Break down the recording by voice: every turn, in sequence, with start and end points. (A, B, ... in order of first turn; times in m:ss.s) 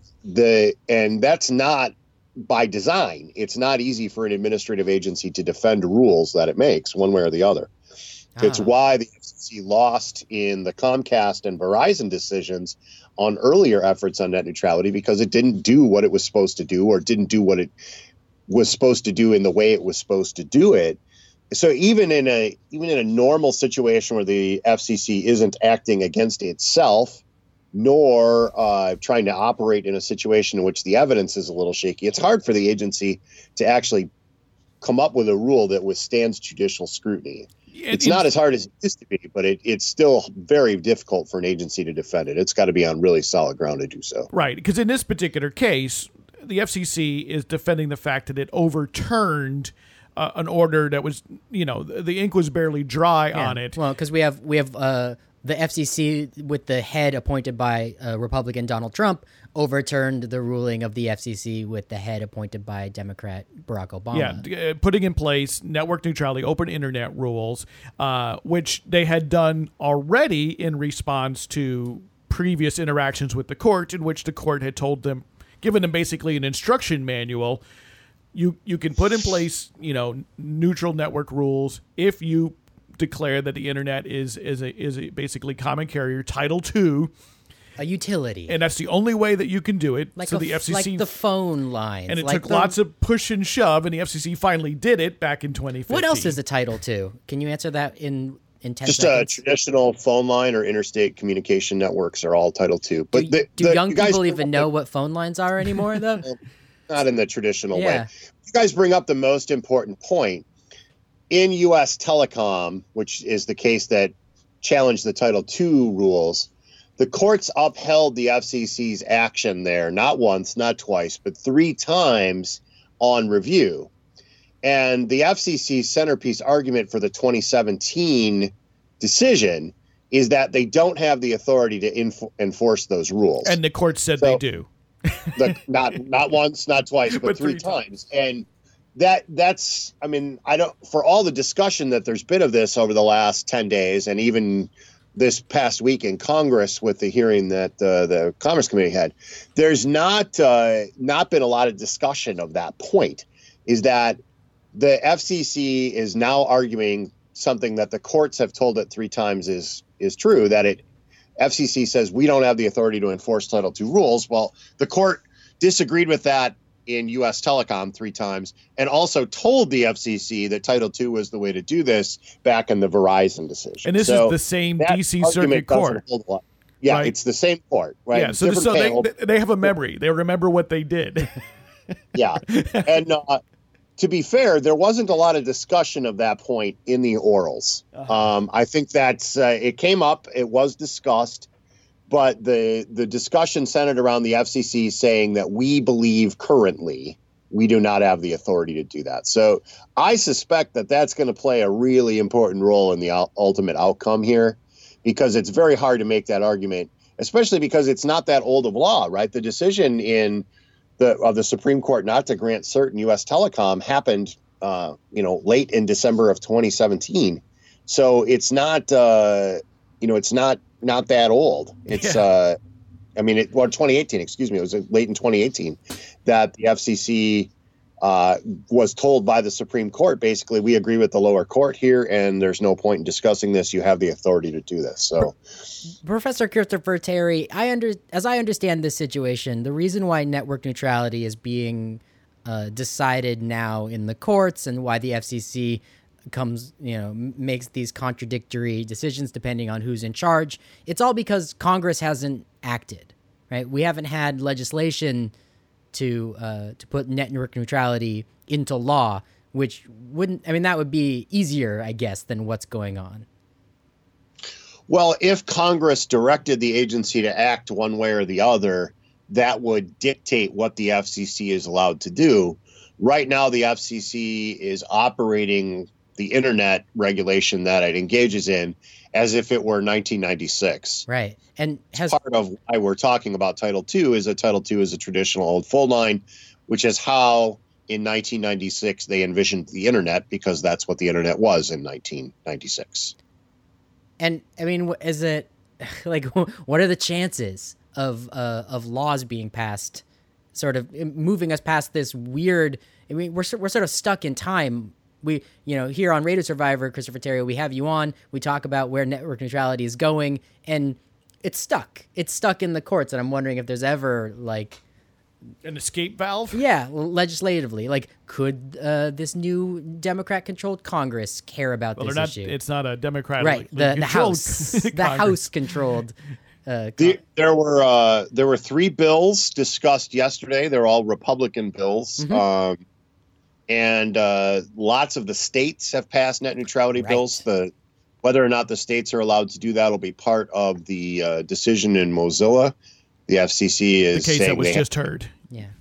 0:00.2-0:07.7 A
0:08.4-0:08.7 B
0:08.4-0:17.7 A
0:18.5-0:21.0 A
0:21.5-0:27.2 A
0:27.7-0:34.1 A
0:34.8-0:44.3 A
0:37.7-0:38.3 C
0:44.3-0:53.8 C
0:53.3-1:04.4 B
1:04.1-1:17.6 C
1:18.3-1:27.1 C
1:27.8-1:28.6 B
1:28.5-1:31.1 C
1:30.2-1:32.8 B
1:32.1-1:36.4 C
1:35.9-1:39.4 B
1:38.9-1:44.7 A
1:43.1-1:46.3 B
1:46.9-1:50.5 A
1:47.7-1:48.1 B
1:51.3-2:03.9 A
2:04.6-2:13.6 A
2:13.4-2:15.5 C
2:15.4-2:34.2 A
2:17.1-2:17.8 C
2:34.7-2:40.8 A
2:41.4-2:59.1 A
2:53.8-2:56.0 C
2:56.9-2:57.1 C
2:58.1-3:01.4 C
3:02.2-3:03.4 A
3:02.5-3:02.9 C
3:04.0-3:11.5 A
3:12.1-3:30.5 A
3:31.0-3:42.6 A
3:41.9-3:42.2 C
3:43.2-3:47.5 A
3:48.0-3:55.4 A
3:56.0-4:15.3 B
4:15.9-4:23.3 B
4:24.9-4:41.1 A
4:41.1-4:42.2 B
4:42.0-4:53.1 A
4:54.2-5:00.0 B
5:00.6-5:14.8 B
5:15.6-5:16.6 C
5:16.5-5:22.5 B
5:22.0-5:25.5 C
5:23.4-5:26.2 B
5:26.7-5:27.2 B
5:27.0-5:32.8 A
5:32.2-5:32.4 B
5:33.7-5:37.7 A
5:37.0-5:37.4 B
5:38.2-5:42.8 A
5:43.3-5:44.8 A
5:44.1-5:45.3 C